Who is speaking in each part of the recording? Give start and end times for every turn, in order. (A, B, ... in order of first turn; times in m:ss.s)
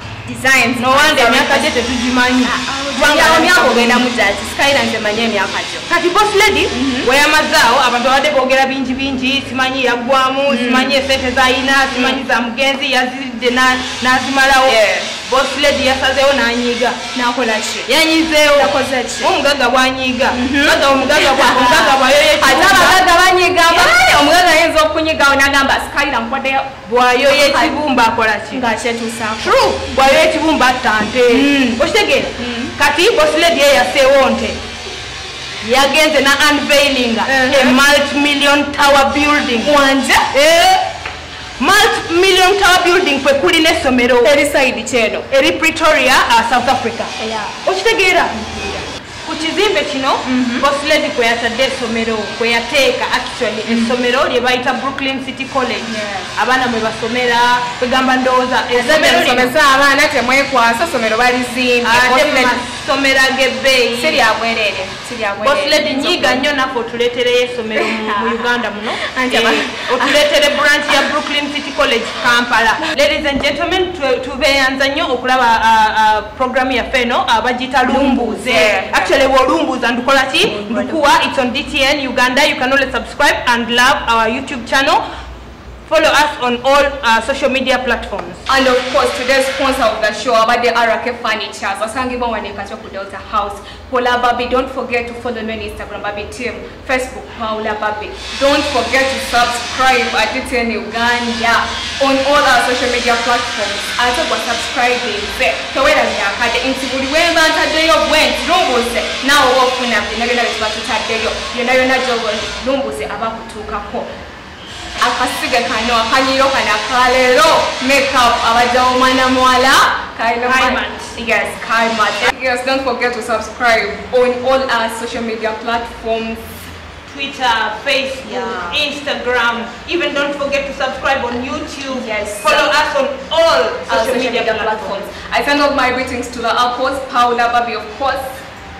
0:00.2-0:01.7 A
0:00.8-0:04.1 B
0:02.4-0:05.9 A
0:05.9-0:17.0 B
0:06.7-0:07.1 A
0:10.5-0:11.0 A
0:11.9-0:12.2 A
0:14.6-0:15.1 A
0:17.1-0:17.9 A
0:17.9-0:23.0 B
0:18.5-0:19.3 A
0:20.3-0:26.7 A
0:23.7-0:24.0 B
0:26.8-0:28.6 B
0:27.3-0:27.8 A
0:28.5-0:30.1 A
0:29.4-0:34.6 B
0:31.3-0:31.8 A
0:32.4-0:32.8 A
0:35.6-0:39.8 B
0:37.2-0:37.8 A
0:39.6-0:40.3 A
0:40.3-0:40.9 B
0:41.6-0:44.3 B
0:44.2-0:45.3 A
0:45.3-0:59.5 B
0:47.2-0:47.5 A
0:50.2-0:50.6 A
0:53.6-0:53.9 A
0:55.8-0:56.3 A
0:58.7-1:02.6 A
1:01.8-1:04.2 B
1:03.9-1:06.4 A
1:05.4-1:25.0 B
1:07.8-1:10.2 A
1:17.8-1:19.1 A
1:20.5-1:21.0 A
1:25.8-1:28.4 B
1:28.5-1:54.1 A
1:55.0-2:06.5 A
2:00.4-2:01.1 B
2:07.1-2:15.0 B
2:08.2-2:08.8 A
2:11.9-2:12.7 A
2:13.9-2:18.4 A